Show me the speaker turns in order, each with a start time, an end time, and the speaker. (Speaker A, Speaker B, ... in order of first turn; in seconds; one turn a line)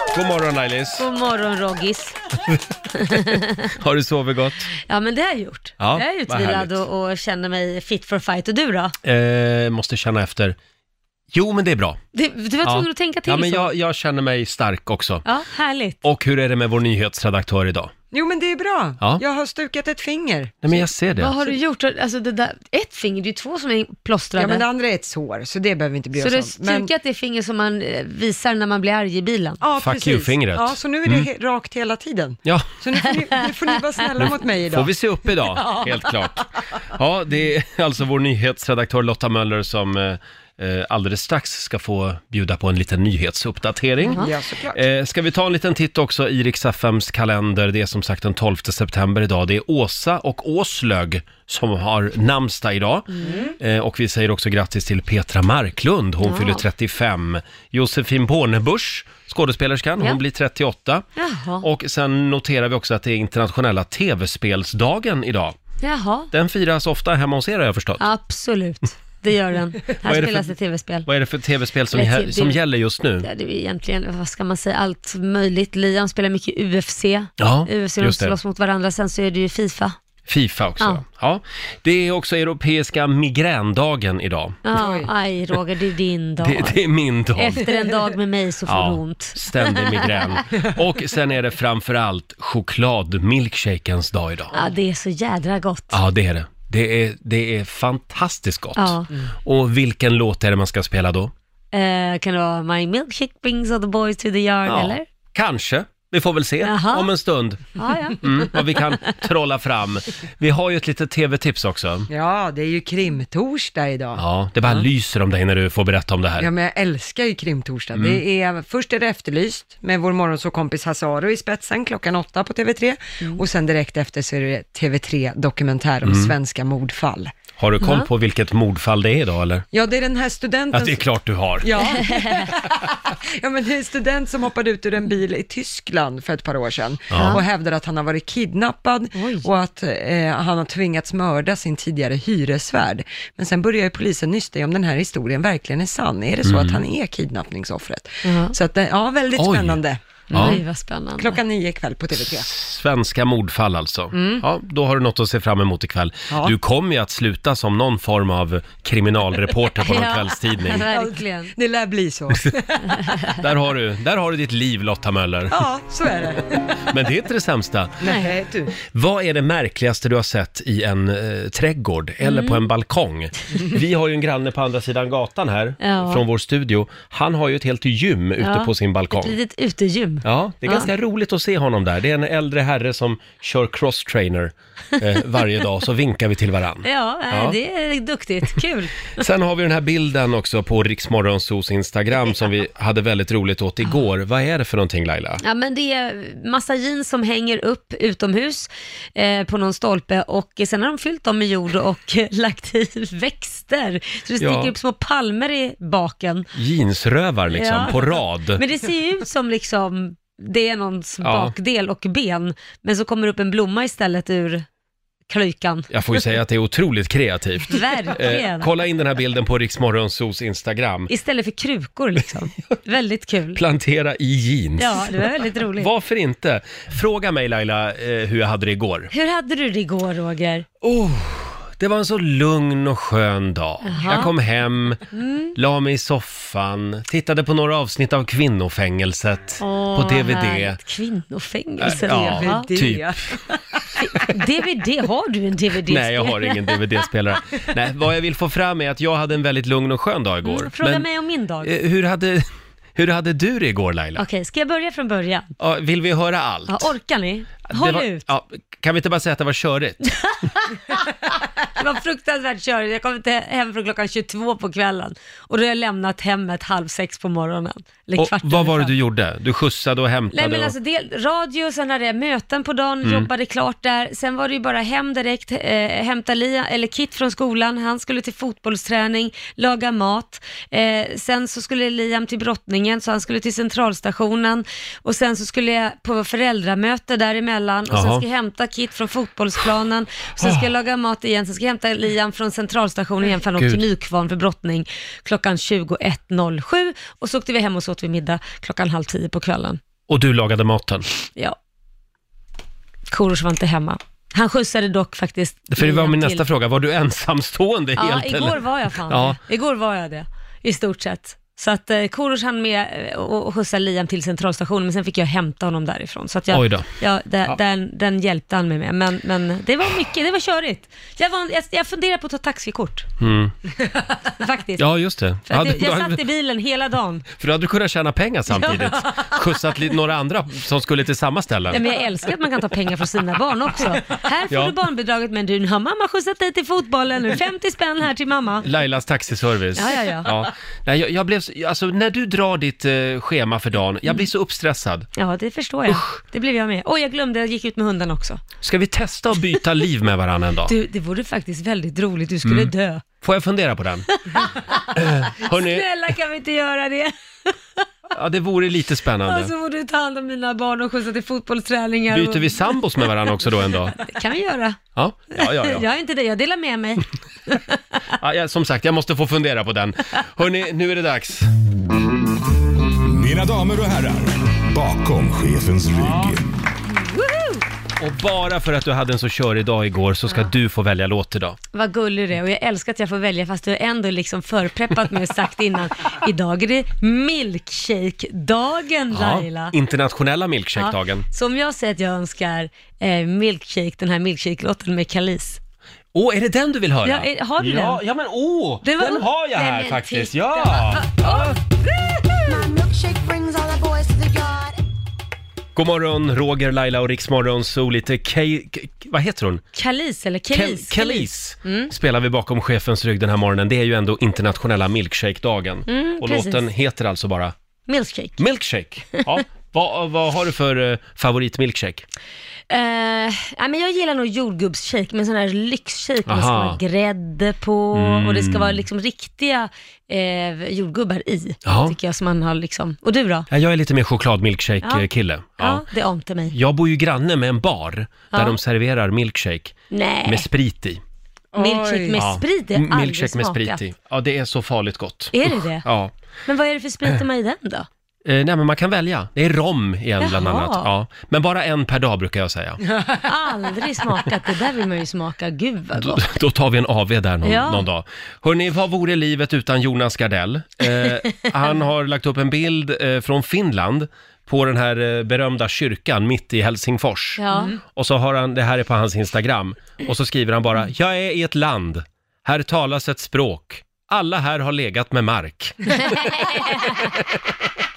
Speaker A: 0.1-1.1
Speaker B: 1.0-2.2
Speaker B: 3.0-3.7
Speaker A: 3.1-4.7
Speaker B: 4.9-8.9
Speaker A: 5.8-6.8
Speaker A: 9.0-10.6
Speaker A: 11.3-12.0
Speaker B: 12.1-13.7
Speaker A: 12.6-15.2
Speaker B: 15.2-16.0
Speaker A: 16.0-17.9
Speaker C: 18.1-20.9
Speaker A: 20.6-21.4
Speaker B: 21.2-24.7
Speaker C: 24.4-26.9
Speaker B: 26.2-29.6
Speaker C: 29.6-34.9
Speaker A: 29.8-31.3
Speaker A: 34.2-44.2
Speaker B: 35.6-35.9
Speaker C: 44.1-44.8
Speaker A: 44.7-53.1
Speaker B: 53.2-53.5
Speaker C: 53.2-53.5
Speaker A: 53.6-61.0
Speaker B: 56.2-56.6
Speaker B: 61.2-61.6
Speaker A: 61.6-65.6
Speaker B: 65.8-66.3
Speaker A: 66.3-68.0
Speaker B: 68.0-71.1
Speaker A: 70.0-70.5
Speaker A: 71.1-73.3
Speaker B: 71.9-72.6
Speaker B: 73.2-80.0
Speaker A: 77.4-78.3
Speaker A: 80.3-84.6
Speaker B: 84.7-86.8
Speaker C: 84.8-85.1
Speaker A: 86.4-87.7
Speaker B: 87.4-90.2
Speaker A: 88.7-94.5
Speaker B: 94.5-96.0
Speaker A: 95.9-101.3
Speaker B: 98.8-99.1
Speaker B: 101.7-105.0
Speaker A: 104.7-107.7
Speaker B: 106.7-107.1
Speaker B: 107.8-108.6
Speaker A: 108.2-112.1
Speaker C: 112.1-114.9
Speaker A: 114.2-116.5
Speaker C: 116.4-127.3
Speaker A: 117.9-118.2
Speaker A: 126.0-126.3
Speaker A: 127.6-129.7
Speaker B: 127.8-128.1
Speaker C: 129.7-131.1
Speaker A: 130.7-131.7
Speaker C: 131.6-150.6
Speaker B: 132.1-132.4
Speaker A: 137.1-137.4
Speaker B: 137.2-137.4
Speaker B: 139.1-139.5
Speaker A: 146.4-146.8
Speaker B: 148.2-148.5
Speaker A: 149.4-149.8
Speaker A: 150.3-150.6
Speaker B: 150.3-151.4
Speaker C: 151.2-152.5
Speaker A: 152.2-160.8
Speaker C: 154.1-154.4
Speaker B: 159.8-161.5
Speaker C: 160.7-163.2
Speaker A: 163.2-165.6
Speaker C: 165.5-166.6
Speaker A: 166.9-168.0
Speaker C: 168.0-168.8
Speaker B: 168.0-168.3
Speaker A: 168.8-179.4
Speaker B: 172.2-172.6
Speaker B: 175.8-176.2
Speaker B: 178.4-180.9
Speaker A: 180.2-187.6
Speaker B: 186.8-189.2
Speaker A: 189.2-195.4
Speaker B: 195.4-206.5
Speaker A: 204.4-204.7
Speaker A: 206.6-208.6
Speaker B: 207.5-214.7
Speaker A: 211.2-211.5
Speaker B: 215.3-215.9
Speaker A: 215.9-221.1
Speaker B: 217.7-218.7
Speaker B: 221.1-223.6
Speaker A: 223.6-225.2
Speaker B: 224.8-225.9
Speaker A: 225.8-229.1
Speaker B: 229.1-230.7
Speaker A: 230.8-235.0
Speaker B: 233.8-234.3
Speaker B: 235.1-235.6
Speaker A: 235.6-240.8
Speaker B: 239.6-242.7
Speaker A: 241.8-243.2
Speaker C: 241.9-243.4
Speaker B: 244.0-246.8
Speaker A: 245.9-251.1
Speaker B: 250.4-251.7
Speaker A: 251.6-254.2
Speaker B: 254.2-255.5
Speaker A: 255.6-256.9
Speaker B: 256.7-258.3
Speaker A: 257.7-260.0
Speaker B: 260.1-261.0
Speaker B: 261.8-268.9
Speaker A: 268.2-270.7
Speaker B: 270.3-299.8
Speaker A: 273.0-273.3
Speaker A: 287.9-288.2
Speaker A: 290.4-290.7
Speaker A: 293.6-293.8
Speaker A: 300.1-301.1
Speaker B: 303.1-306.4
Speaker A: 305.7-309.4
Speaker B: 308.0-323.1
Speaker A: 316.5-316.9
Speaker A: 323.2-323.5
Speaker B: 324.2-324.8
Speaker A: 324.8-326.2
Speaker B: 325.5-327.2
Speaker A: 327.4-331.8
Speaker B: 328.5-329.4
Speaker B: 331.7-338.7
Speaker A: 338.6-345.1
Speaker B: 339.8-340.3
Speaker B: 345.2-348.4
Speaker A: 345.9-346.2
Speaker A: 348.6-350.7
Speaker B: 350.7-353.0
Speaker A: 352.4-354.1
Speaker B: 354.3-357.5
Speaker A: 354.9-355.9
Speaker A: 358.1-359.5
Speaker B: 359.3-363.3
Speaker A: 362.1-364.0
Speaker B: 364.0-364.8
Speaker A: 365.0-365.9
Speaker B: 365.4-368.0
Speaker A: 368.2-371.5
Speaker D: 373.0-376.5
Speaker A: 376.0-376.4
Speaker B: 377.0-377.6
Speaker A: 378.0-381.6
Speaker B: 381.7-389.7
Speaker A: 389.1-391.2
Speaker B: 390.8-395.6
Speaker A: 396.1-401.6
Speaker B: 397.1-398.0
Speaker B: 398.8-401.6
Speaker E: 402.5-404.8
Speaker A: 405.8-409.6
Speaker B: 409.8-411.9
Speaker A: 410.5-417.5
Speaker B: 415.9-416.6
Speaker B: 417.9-418.4
Speaker A: 418.4-422.1
Speaker B: 422.7-433.5
Speaker A: 426.3-426.8
Speaker A: 427.9-428.8
Speaker A: 431.6-431.9
Speaker A: 433.5-435.8
Speaker B: 435.6-436.6
Speaker A: 436.5-441.0
Speaker B: 438.3-438.6
Speaker B: 439.9-440.5
Speaker C: 441.5-442.2
Speaker B: 441.6-443.8
Speaker A: 442.1-446.1
Speaker B: 445.3-445.9
Speaker B: 446.5-447.9
Speaker A: 448.2-452.8
Speaker B: 450.2-450.9
Speaker B: 452.9-456.2
Speaker A: 455.9-477.5
Speaker B: 457.4-457.9
Speaker B: 467.4-467.8
Speaker B: 475.9-477.1